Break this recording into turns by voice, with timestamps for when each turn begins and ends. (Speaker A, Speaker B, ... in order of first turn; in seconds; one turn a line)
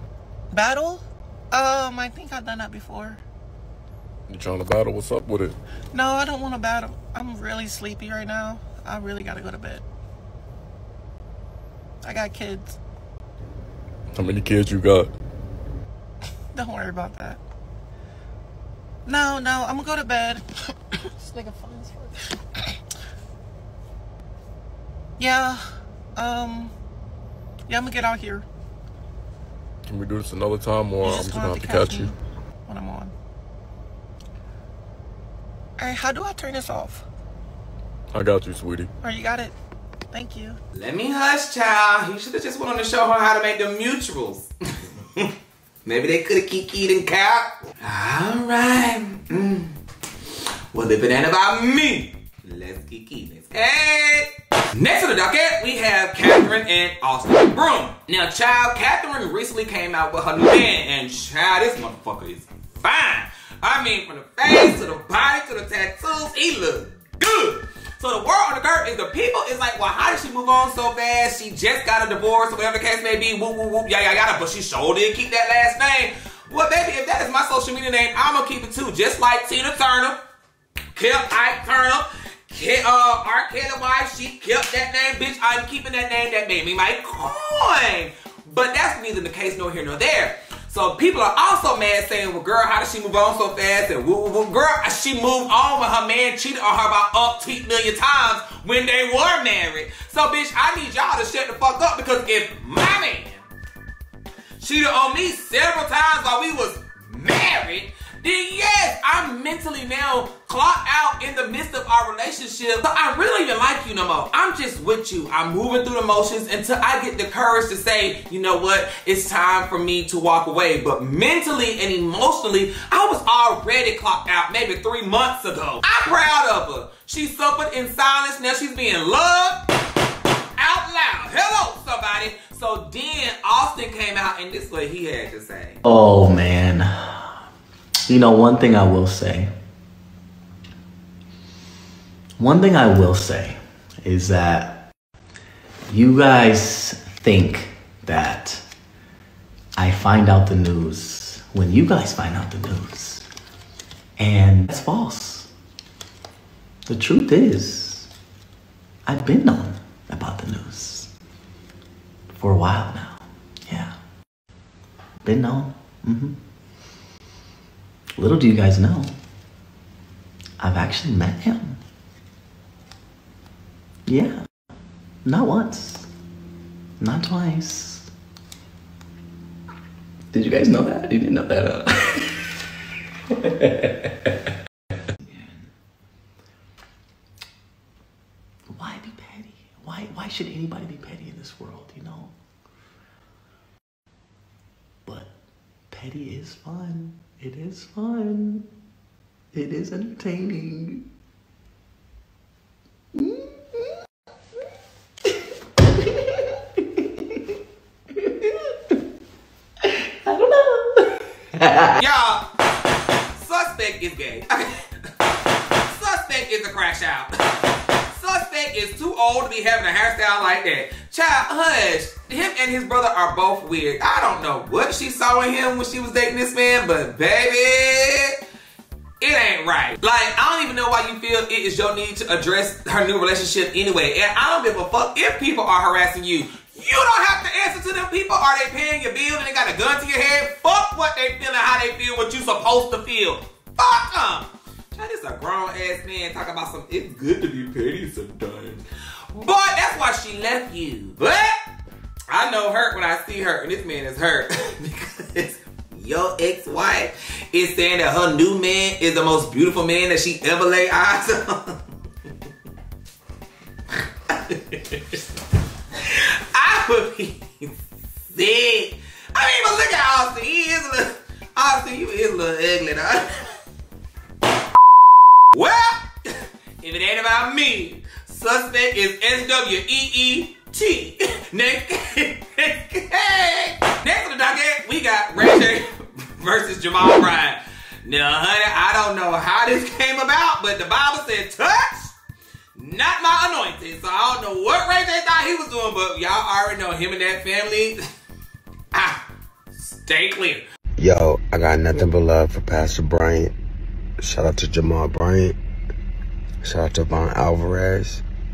Speaker A: 0.5-3.2
Speaker B: 4.3-5.6
Speaker A: 5.9-9.8
Speaker A: 12.0-12.8
Speaker B: 14.1-15.1
Speaker A: 16.5-17.4
Speaker A: 19.1-20.4
Speaker A: 21.2-22.2
Speaker A: 25.2-25.6
Speaker A: 26.1-26.7
Speaker A: 27.7-28.4
Speaker B: 29.9-32.1
Speaker A: 31.0-32.1
Speaker A: 32.6-33.1
Speaker A: 35.8-37.0
Speaker B: 38.1-38.9
Speaker A: 39.0-39.5
Speaker A: 40.1-40.6
Speaker C: 40.7-44.5
Speaker C: 45.9-49.8
Speaker C: 50.7-80.2
Speaker C: 81.0-103.5
Speaker C: 104.6-129.6
Speaker C: 130.6-135.8
Speaker D: 135.8-137.4
Speaker D: 138.1-139.5
Speaker D: 142.4-144.9
Speaker D: 145.9-148.6
Speaker D: 149.8-153.2
Speaker D: 154.2-155.5
Speaker D: 156.9-158.1
Speaker D: 159.1-161.1
Speaker D: 162.4-164.0
Speaker D: 165.2-166.4
Speaker D: 168.2-169.2
Speaker D: 170.6-171.8
Speaker D: 174.1-174.4
Speaker D: 175.2-176.1
Speaker D: 177.0-178.1
Speaker D: 180.3-182.4
Speaker D: 183.4-183.9
Speaker D: 185.2-185.7
Speaker D: 188.7-192.3
Speaker D: 195.1-195.3
Speaker D: 195.9-198.7
Speaker D: 199.5-201.1
Speaker D: 203.1-203.9
Speaker D: 205.9-207.4
Speaker D: 208.2-208.7
Speaker D: 209.9-212.0
Speaker C: 212.0-212.4
Speaker C: 213.4-214.8
Speaker C: 215.8-228.4
Speaker C: 229.2-251.6
Speaker C: 252.3-261.8
Speaker C: 264.3-265.2
Speaker C: 266.0-273.5
Speaker C: 275.5-292.1
Speaker C: 292.8-298.0
Speaker C: 298.9-299.2
Speaker C: 299.8-300.6
Speaker E: 301.0-303.5
Speaker E: 304.2-305.6
Speaker E: 306.6-308.2